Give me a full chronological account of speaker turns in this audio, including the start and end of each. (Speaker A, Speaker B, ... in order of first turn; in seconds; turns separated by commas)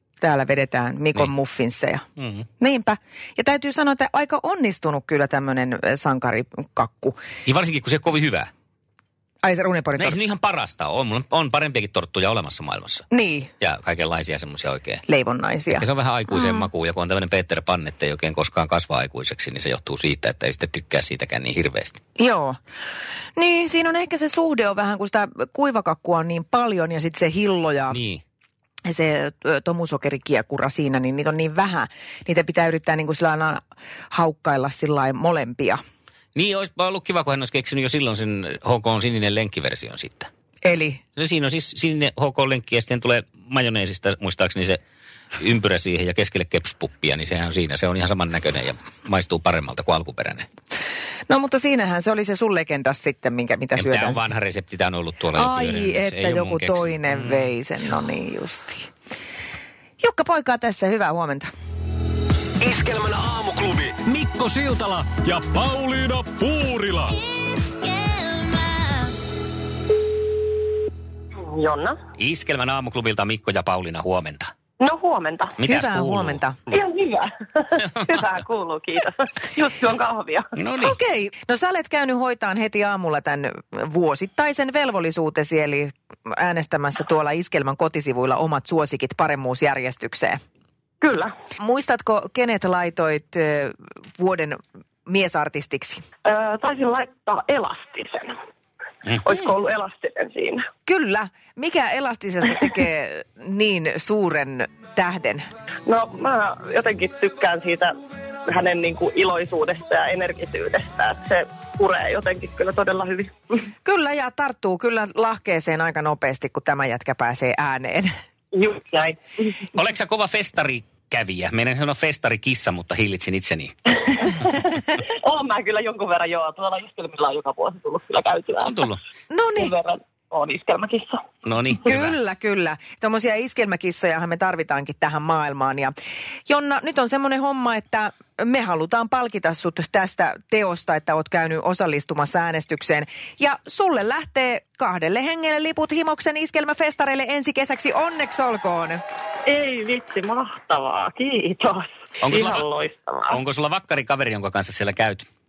Speaker A: 0.2-2.0, Speaker B: 2.2-2.4, Speaker A: 2.6-7.2, Speaker B: 7.5-8.5, Speaker A: 9.4-10.2, Speaker B: 10.0-13.0, Speaker A: 13.1-13.5, Speaker B: 13.6-15.0, Speaker A: 15.1-16.7, Speaker B: 15.7-22.0, Speaker A: 22.2-22.6, Speaker A: 23.4-28.0, Speaker B: 27.9-28.2, Speaker A: 28.8-35.8, Speaker B: 36.3-40.3, Speaker A: 40.6-41.0, Speaker B: 41.1-44.8, Speaker B: 45.4-50.5, Speaker A: 51.3-54.2, Speaker B: 53.8-57.5, Speaker A: 55.3-58.9, Speaker A: 60.0-61.5, Speaker C: 62.6-67.2, Speaker D: 71.4-72.0, Speaker B: 72.2-74.5, Speaker D: 74.8-75.6, Speaker B: 75.6-76.4, Speaker A: 75.7-76.6, Speaker D: 76.7-80.5, Speaker B: 80.6-80.9, Speaker A: 80.8-90.4, Speaker D: 91.0-91.3, Speaker A: 91.6-96.0, Speaker D: 96.2-98.3, Speaker D: 99.1-100.6, Speaker A: 100.8-105.4, Speaker D: 105.8-113.6, Speaker A: 113.8-118.1, Speaker D: 118.5-119.5, Speaker B: 119.7-123.7, Speaker D: 124.3-128.9, Speaker B: 128.6-129.0, Speaker A: 129.3-129.7, Speaker D: 129.5-131.2, Speaker B: 131.4-132.1, Speaker A: 131.8-135.9, Speaker A: 136.5-149.0, Speaker D: 149.4-153.4, Speaker B: 152.2-152.7, Speaker B: 153.3-155.3